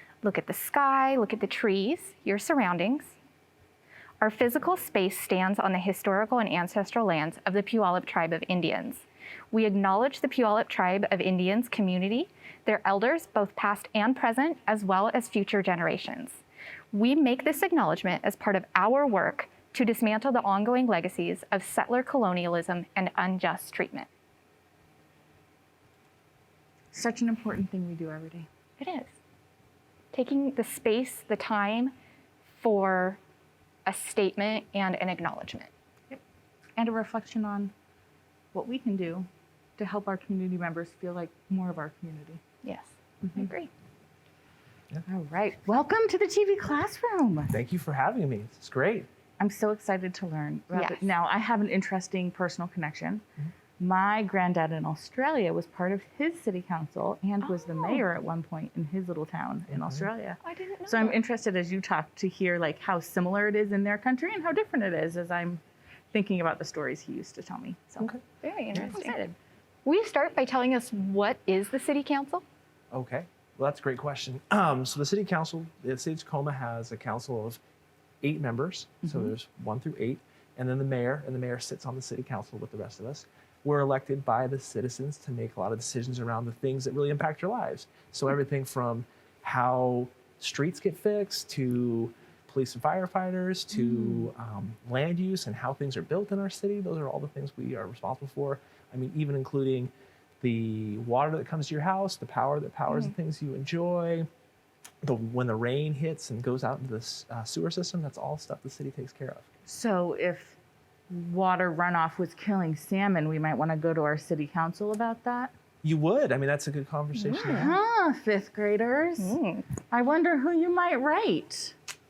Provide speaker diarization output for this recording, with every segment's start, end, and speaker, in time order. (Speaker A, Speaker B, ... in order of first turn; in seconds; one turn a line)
Speaker A: 0.2-3.1
Speaker A: 4.2-16.4
Speaker A: 16.9-24.1
Speaker B: 26.9-28.5
Speaker A: 28.8-29.1
Speaker A: 30.1-31.9
Speaker A: 32.6-33.2
Speaker A: 33.9-35.7
Speaker B: 36.8-37.7
Speaker B: 38.5-42.4
Speaker A: 42.6-43.7
Speaker B: 43.2-43.5
Speaker B: 45.0-47.5
Speaker C: 47.5-49.1
Speaker B: 49.4-53.2
Speaker A: 50.7-51.1
Speaker B: 53.8-65.6
Speaker A: 57.4-58.0
Speaker A: 60.4-61.2
Speaker B: 66.1-68.2
Speaker A: 68.4-69.1
Speaker B: 68.7-69.3
Speaker A: 69.8-72.4
Speaker C: 72.9-77.6
Speaker C: 78.2-104.3
Speaker B: 79.0-79.3
Speaker C: 105.0-109.4
Speaker B: 109.7-110.6
Speaker B: 111.1-115.5
Speaker C: 115.8-117.7
Speaker A: 117.2-117.7
Speaker B: 117.3-121.8
Speaker A: 119.2-119.7